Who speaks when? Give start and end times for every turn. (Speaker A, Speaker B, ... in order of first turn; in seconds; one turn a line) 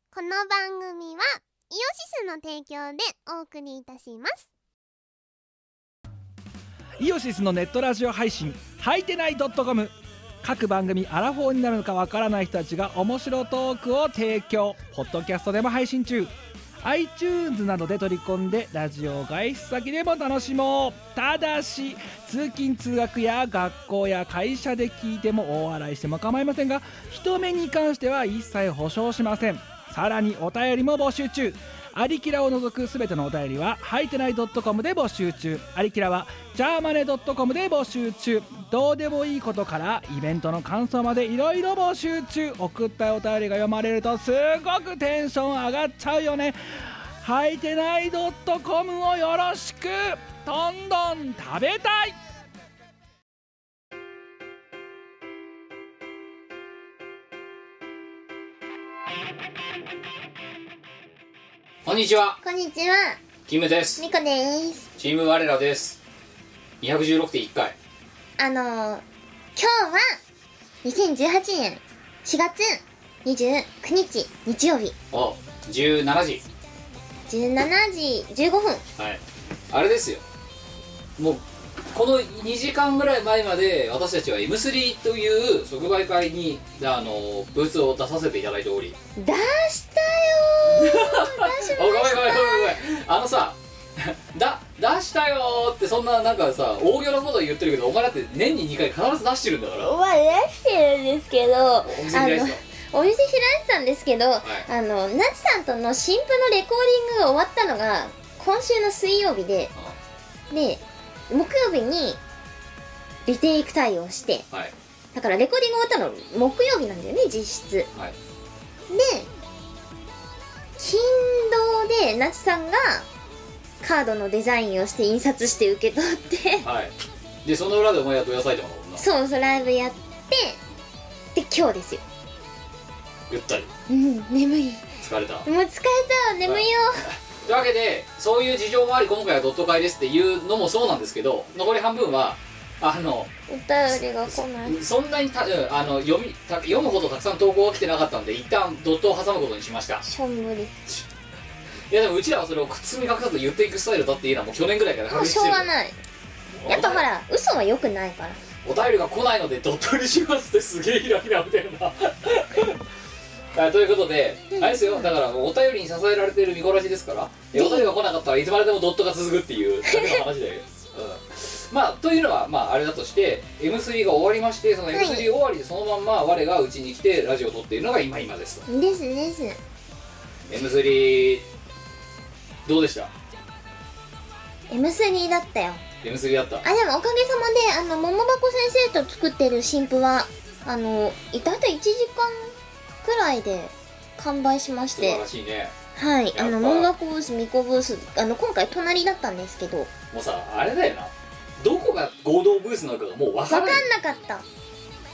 Speaker A: 0.1-4.4
Speaker B: 7.0-16.3
Speaker B: 16.8-46.6
Speaker B: 47.2-52.2
Speaker C: 61.9-62.4
Speaker A: 62.4-63.2
Speaker C: 63.5-64.0
Speaker A: 64.0-64.9
Speaker C: 65.0-66.0
Speaker C: 66.8-67.8
Speaker A: 68.4-69.0
Speaker A: 69.6-70.2
Speaker A: 70.8-75.0
Speaker C: 75.1-76.4
Speaker A: 77.3-78.8
Speaker C: 79.0-80.2
Speaker C: 81.2-89.0
Speaker A: 89.2-92.8
Speaker C: 90.7-99.9
Speaker A: 99.8-109.7
Speaker C: 101.8-102.6
Speaker C: 104.4-104.7
Speaker A: 110.5-112.2
Speaker A: 113.3-114.5
Speaker A: 115.1-117.9
Speaker A: 118.9-119.3
Speaker A: 120.8-123.1
Speaker A: 123.8-126.7
Speaker C: 126.6-129.1
Speaker A: 129.0-130.6
Speaker A: 131.3-132.0
Speaker C: 133.3-133.7
Speaker A: 133.9-134.9
Speaker C: 135.0-135.5
Speaker A: 135.4-137.1
Speaker C: 136.4-143.3
Speaker A: 143.5-144.8
Speaker C: 144.3-150.0
Speaker A: 150.0-150.7
Speaker C: 151.9-155.7
Speaker A: 155.1-156.0
Speaker C: 156.6-157.1
Speaker A: 156.7-158.4
Speaker C: 158.6-162.8
Speaker C: 163.5-178.7
Speaker A: 164.5-165.1
Speaker A: 167.5-168.0
Speaker A: 169.9-170.2
Speaker A: 174.9-175.3
Speaker A: 178.7-179.6
Speaker C: 180.5-181.5
Speaker C: 182.7-183.1
Speaker A: 184.7-185.8
Speaker C: 186.0-186.7
Speaker A: 186.6-195.2
Speaker C: 194.9-195.7
Speaker A: 195.9-199.9
Speaker C: 196.3-196.9
Speaker C: 200.1-203.9
Speaker A: 203.5-204.4